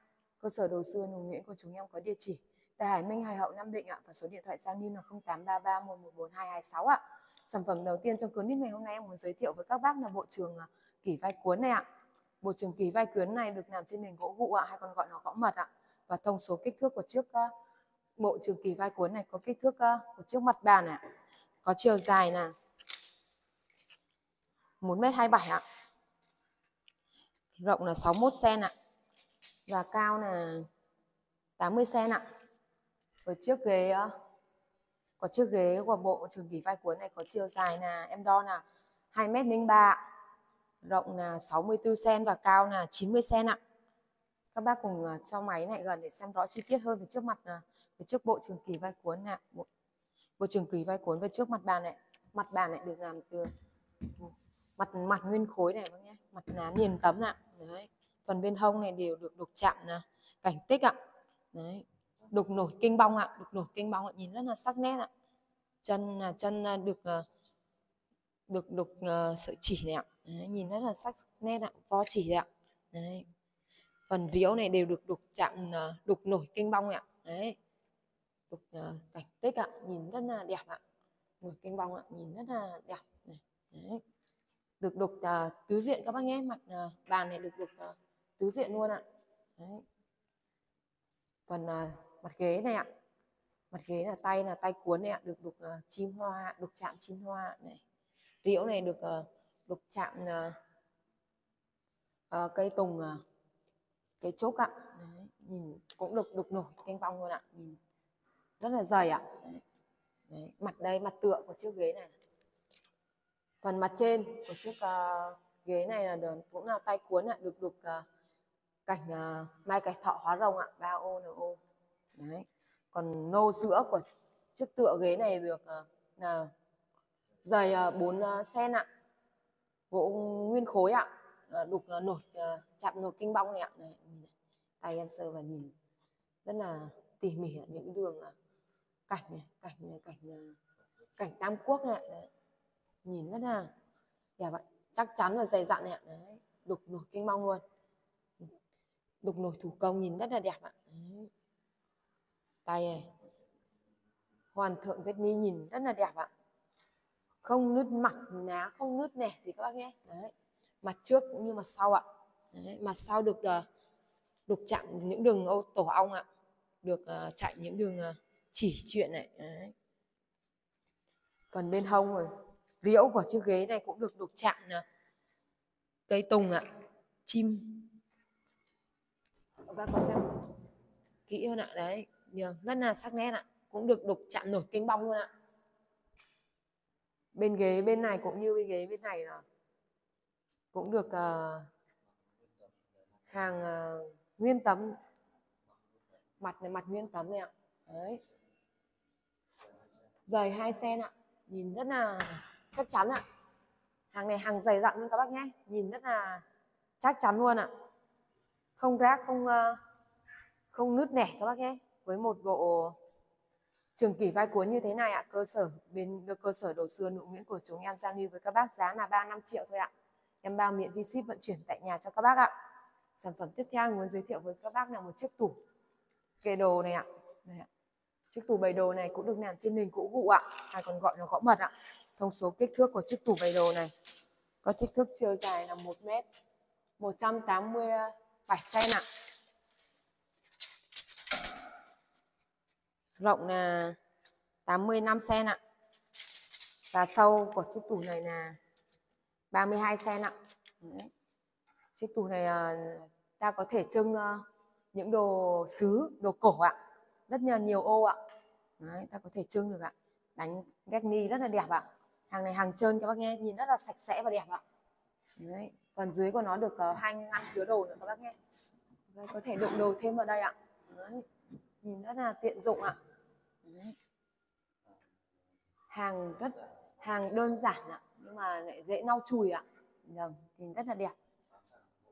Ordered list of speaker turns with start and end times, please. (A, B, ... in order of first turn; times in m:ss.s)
0:00.4-0:11.8 A
0:12.4-0:17.5 A
0:18.2-0:21.0 A
0:21.6-0:22.5 A
0:24.8-0:25.6 A
0:27.6-0:28.7 A
0:29.7-0:30.7 A
0:31.6-0:32.2 A
0:33.2-0:34.1 A
0:35.2-0:40.0 A
0:40.8-0:43.6 A
0:44.5-0:49.7 A
0:50.4-0:53.5 A
0:54.2-1:01.0 A
1:01.5-1:05.1 A
1:05.8-1:07.3 A
1:08.5-1:13.3 A
1:14.1-1:17.6 A
1:18.5-1:20.8 A
1:21.4-1:24.0 A
1:24.8-1:29.0 A
1:29.6-1:29.8 A
1:31.5-1:32.9 A
1:33.7-1:37.8 A
1:38.4-1:40.6 A
1:42.3-1:43.2 A
1:44.2-1:47.8 A
1:48.6-1:49.6 A
1:50.3-1:52.1 A
1:53.6-1:58.0 A
1:58.9-2:01.6 A
2:02.1-2:06.5 A
2:07.4-2:08.9 A
2:09.9-2:15.7 A
2:16.4-2:18.3 A
2:19.1-2:20.6 A
2:21.2-2:22.3 A
2:23.0-2:23.7 A
2:24.4-2:27.6 A
2:29.2-2:31.3 A
2:32.6-2:33.1 A
2:34.5-2:36.3 A
2:37.4-2:43.6 A
2:44.5-2:46.2 A
2:46.8-2:49.7 A
2:51.5-2:54.8 A
2:56.1-2:56.6 A
2:57.3-2:57.9 A
2:59.7-3:00.3 A
3:01.3-3:05.3 A
3:07.4-3:09.4 A
3:10.7-3:11.7 A
3:13.3-3:15.0 A
3:16.4-3:18.2 A
3:20.3-3:23.2 A
3:24.1-3:26.4 A
3:27.0-3:27.7 A
3:28.8-3:29.8 A
3:30.7-3:33.0 A
3:34.0-3:39.9 A
3:40.4-3:42.5 A
3:43.2-3:45.6 A
3:46.4-3:47.7 A
3:48.3-3:53.9 A
3:54.6-3:56.2 A
3:57.0-3:59.0 A
4:03.2-4:04.0 A
4:04.7-4:05.6 A
4:06.9-4:08.6 A
4:09.5-4:11.1 A
4:12.0-4:16.8 A
4:17.3-4:18.2 A
4:18.8-4:24.6 A
4:25.4-4:28.4 A
4:29.1-4:31.3 A
4:31.8-4:33.0 A
4:33.6-4:34.0 A
4:35.9-4:41.1 A